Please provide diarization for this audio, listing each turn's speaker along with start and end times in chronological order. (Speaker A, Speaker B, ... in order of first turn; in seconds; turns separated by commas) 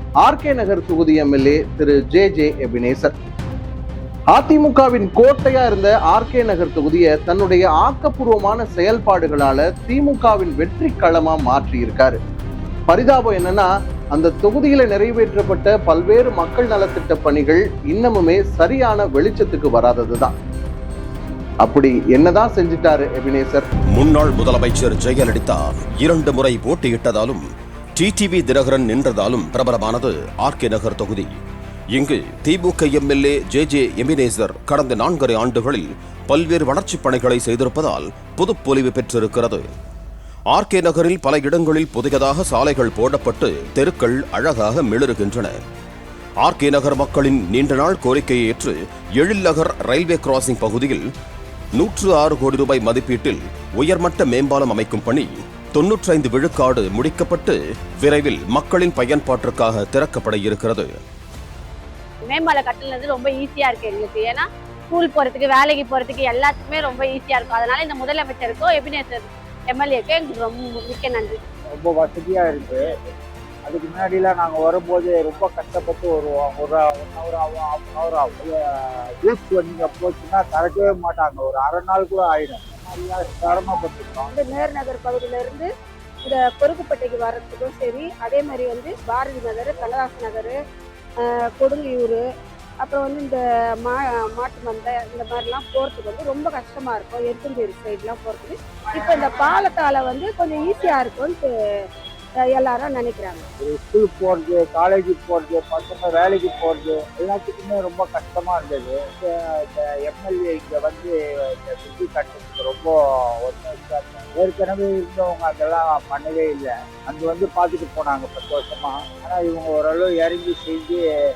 Speaker A: 0.2-3.1, Speaker A: 4.3-12.2, Speaker A: 12.9-20.3, Speaker A: 21.6-23.7, Speaker B: 23.9-27.4, Speaker B: 28.0-31.3, Speaker B: 31.9-39.7, Speaker B: 40.5-45.6, Speaker B: 46.4-51.1, Speaker B: 51.8-61.0, Speaker C: 62.2-71.4, Speaker D: 71.7-72.9, Speaker D: 73.7-84.3, Speaker E: 84.3-85.7, Speaker E: 86.2-90.6, Speaker E: 91.2-92.2, Speaker E: 92.8-101.5, Speaker E: 102.4-103.5, Speaker D: 103.6-121.0